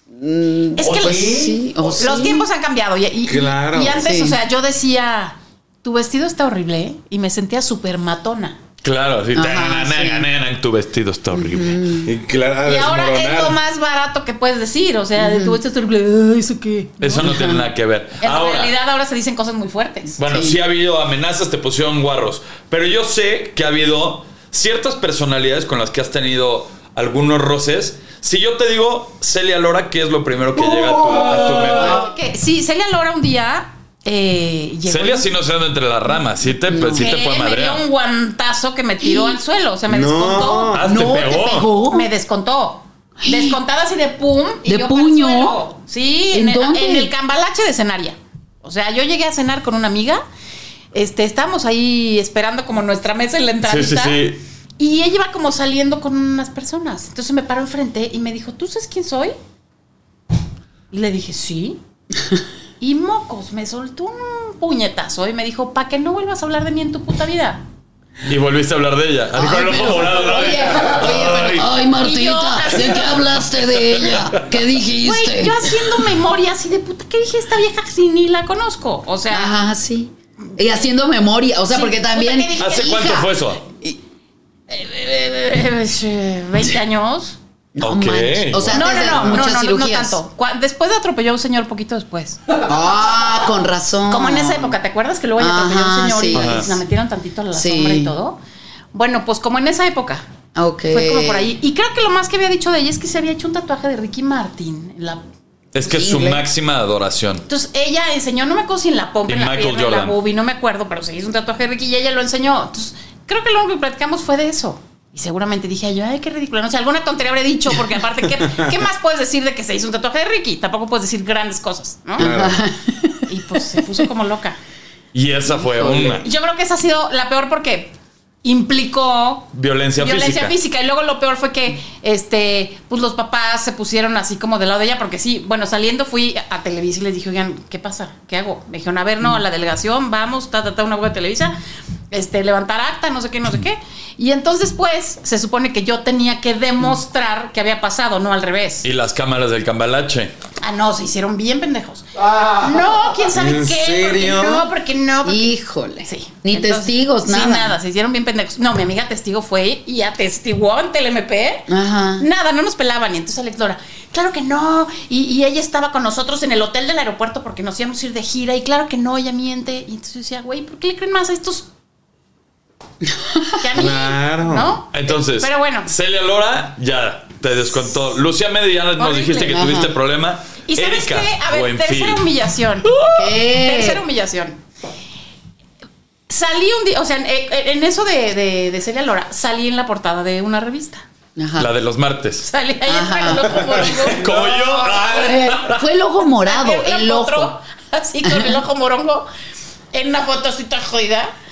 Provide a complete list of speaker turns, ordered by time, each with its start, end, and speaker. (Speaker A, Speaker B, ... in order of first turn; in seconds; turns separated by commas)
Speaker A: 0.1-2.4, Speaker B: 0.7-8.6, Speaker C: 0.8-1.4, Speaker D: 3.3-4.0, Speaker A: 4.0-4.4, Speaker C: 8.8-11.9, Speaker A: 9.3-10.3, Speaker A: 11.3-12.1, Speaker D: 12.0-13.6, Speaker B: 12.6-17.3, Speaker A: 15.2-15.6, Speaker C: 17.0-18.7, Speaker A: 17.2-17.6, Speaker B: 18.2-20.2, Speaker C: 20.2-32.0, Speaker A: 20.3-20.6, Speaker B: 31.6-35.3, Speaker A: 31.7-32.1, Speaker C: 34.9-37.8, Speaker A: 36.7-37.1, Speaker B: 36.9-50.2, Speaker A: 39.0-39.4, Speaker D: 39.9-40.9, Speaker C: 40.7-41.7, Speaker A: 40.8-42.1, Speaker A: 43.2-43.6, Speaker A: 44.6-45.6, Speaker A: 46.3-47.1, Speaker B: 50.9-54.2, Speaker C: 53.6-54.4, Speaker B: 54.8-59.4, Speaker B: 60.9-61.8, Speaker B: 62.8-67.6, Speaker C: 68.2-71.7, Speaker A: 69.3-76.0, Speaker B: 72.0-73.2, Speaker C: 73.8-74.5, Speaker B: 75.0-79.5, Speaker A: 79.3-83.0, Speaker B: 81.7-83.4, Speaker C: 82.6-83.6, Speaker B: 84.7-87.4, Speaker A: 87.7-90.2, Speaker C: 87.8-89.2, Speaker B: 88.7-92.4, Speaker A: 92.6-94.8, Speaker B: 94.1-98.4, Speaker A: 95.4-96.7, Speaker C: 96.3-96.8, Speaker A: 97.5-98.1, Speaker B: 98.9-100.2, Speaker A: 100.5-101.5, Speaker B: 100.9-105.2, Speaker C: 105.7-107.5, Speaker A: 105.8-106.4, Speaker B: 107.5-122.3, Speaker C: 109.3-110.2, Speaker D: 118.3-118.7, Speaker D: 122.2-122.6, Speaker A: 122.2-123.3, Speaker B: 123.3-124.6, Speaker C: 125.1-126.3, Speaker A: 125.6-125.9, Speaker B: 125.9-141.5, Speaker C: 129.5-130.6, Speaker B: 142.1-148.9, Speaker C: 148.8-150.3, Speaker B: 150.6-155.5, Speaker D: 153.3-154.7, Speaker A: 155.2-157.7, Speaker B: 156.0-171.7, Speaker A: 161.7-162.2, Speaker A: 173.0-173.6, Speaker B: 173.6-175.9, Speaker D: 173.7-174.7, Speaker C: 174.9-182.2, Speaker B: 179.0-179.6, Speaker A: 179.5-179.9, Speaker B: 180.7-184.6, Speaker C: 182.8-183.3, Speaker A: 183.1-184.0, Speaker B: 186.3-191.0, Speaker A: 191.4-191.7, Speaker C: 191.6-192.4, Speaker B: 192.4-195.7, Speaker A: 192.8-193.8, Speaker C: 194.0-195.8, Speaker A: 195.1-197.5, Speaker B: 196.3-199.3, Speaker A: 198.2-198.6, Speaker B: 199.9-201.3